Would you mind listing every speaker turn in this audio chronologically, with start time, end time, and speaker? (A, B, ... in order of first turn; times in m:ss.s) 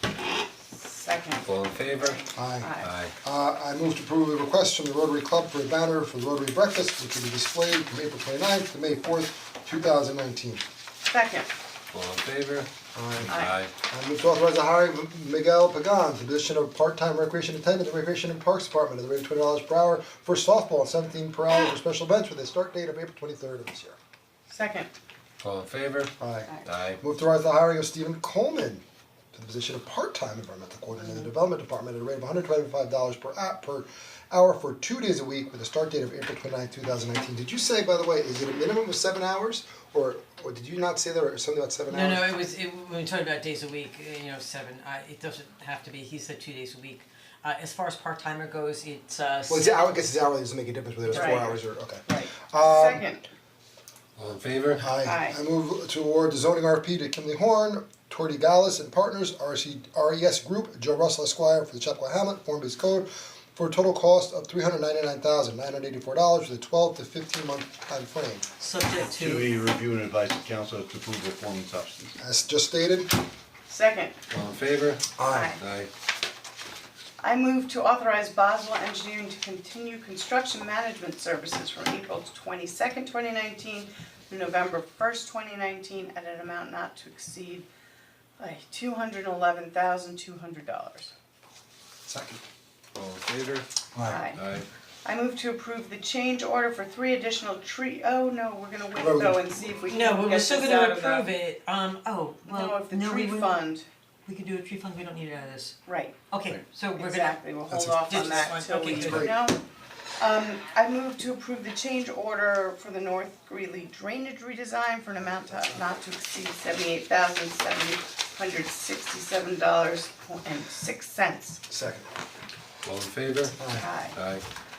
0:00.7-0:01.5 A
0:01.4-0:02.2 B
0:02.0-0:02.9 A
0:02.3-0:02.7 C
0:02.8-0:03.1 B
0:03.2-0:10.6 C
0:11.1-0:11.5 A
0:11.9-0:13.7 B
0:13.0-0:24.0 C
0:24.5-0:24.9 A
0:25.4-0:26.1 B
0:26.2-0:42.4 C
0:26.6-0:27.0 B
0:41.9-0:49.9 D
0:49.5-0:53.1 C
0:51.1-0:51.5 D
0:51.1-0:53.2 A
0:54.2-0:54.9 B
0:54.8-1:08.5 C
0:55.0-0:55.4 A
1:08.6-1:09.5 D
1:09.1-1:12.2 E
1:12.2-1:13.1 C
1:13.7-1:14.2 A
1:14.3-1:15.9 B
1:15.2-1:15.6 C
1:15.3-1:15.6 A
1:17.2-1:27.7 A
1:28.4-1:31.1 A
1:32.1-1:32.4 C
1:33.0-1:33.7 B
1:33.9-1:34.2 C
1:34.0-1:34.4 A
1:34.3-1:34.7 B
1:35.0-1:41.3 A
1:39.0-1:39.4 C
1:39.8-1:43.6 D
1:42.4-1:43.8 A
1:44.3-1:45.8 D
1:45.9-1:46.2 A
1:46.3-1:47.4 D
1:46.9-1:49.6 A
1:47.7-1:49.3 C
1:48.1-1:49.3 D
1:50.2-2:01.6 A
2:01.7-2:02.1 C
2:02.8-2:03.6 B
2:03.6-2:03.9 C
2:03.7-2:04.2 A
2:04.1-2:04.4 B